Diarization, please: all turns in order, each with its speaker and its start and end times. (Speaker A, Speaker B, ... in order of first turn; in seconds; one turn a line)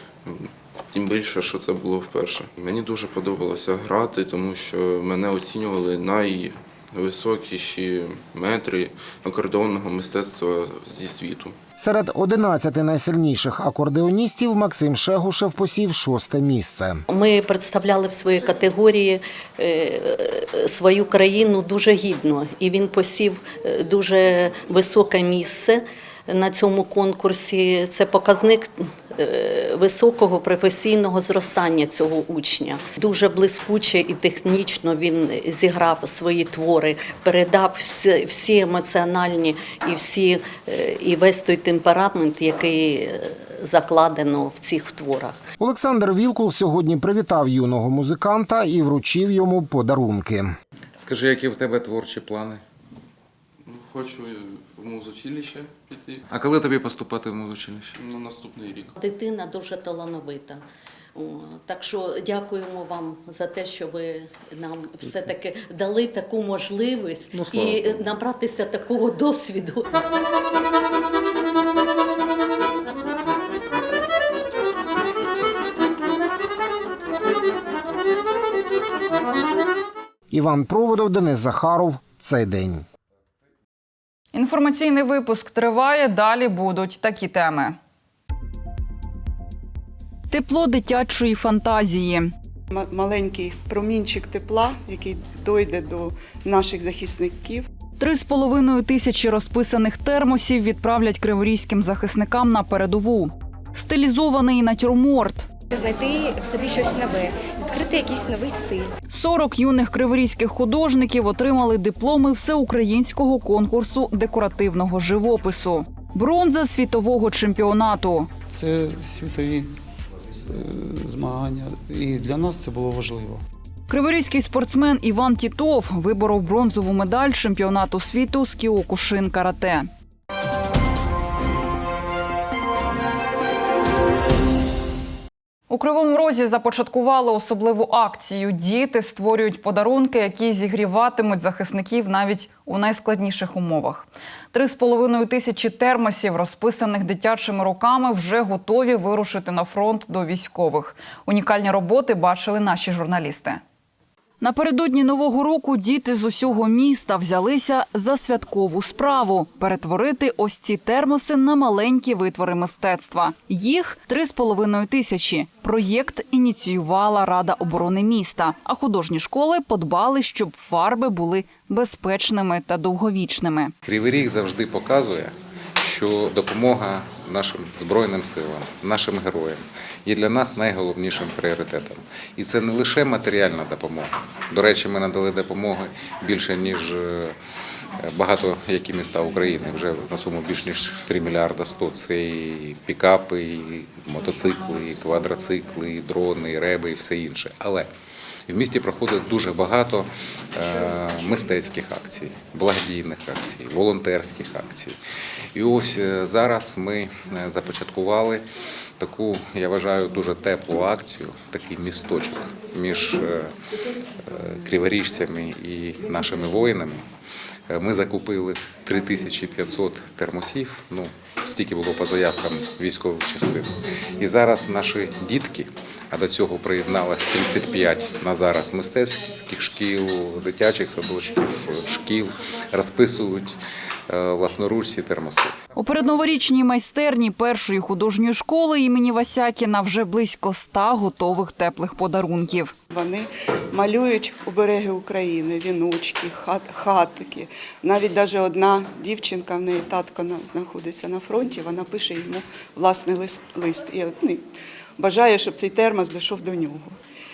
Speaker A: 0.2-11.6
Speaker B: 11.8-17.0
Speaker C: 17.1-45.4
Speaker B: 45.6-50.5
Speaker D: 51.0-52.6
Speaker A: 53.6-56.2
Speaker D: 56.3-57.9
Speaker A: 58.0-58.9
Speaker C: 59.0-60.6
Speaker C: 61.2-69.9
Speaker B: 80.3-82.9
Speaker E: 84.3-87.8
Speaker E: 90.3-92.3
Speaker F: 92.7-97.7
Speaker E: 98.0-105.5
Speaker G: 105.7-108.9
Speaker E: 109.1-118.3
Speaker H: 118.5-119.7
Speaker H: 120.5-123.4
Speaker E: 123.9-129.9
Speaker E: 135.7-153.6
Speaker E: 154.4-173.7
Speaker D: 173.9-187.3
Speaker D: 188.0-197.9
Speaker D: 198.5-204.9
Speaker D: 205.6-208.4
Speaker D: 209.0-213.5
Speaker D: 214.3-217.0
Speaker D: 217.7-223.7
Speaker D: 224.2-233.6
Speaker D: 234.1-235.5
Speaker E: 235.8-242.7
Speaker F: 242.9-254.4
Speaker F: 255.0-257.0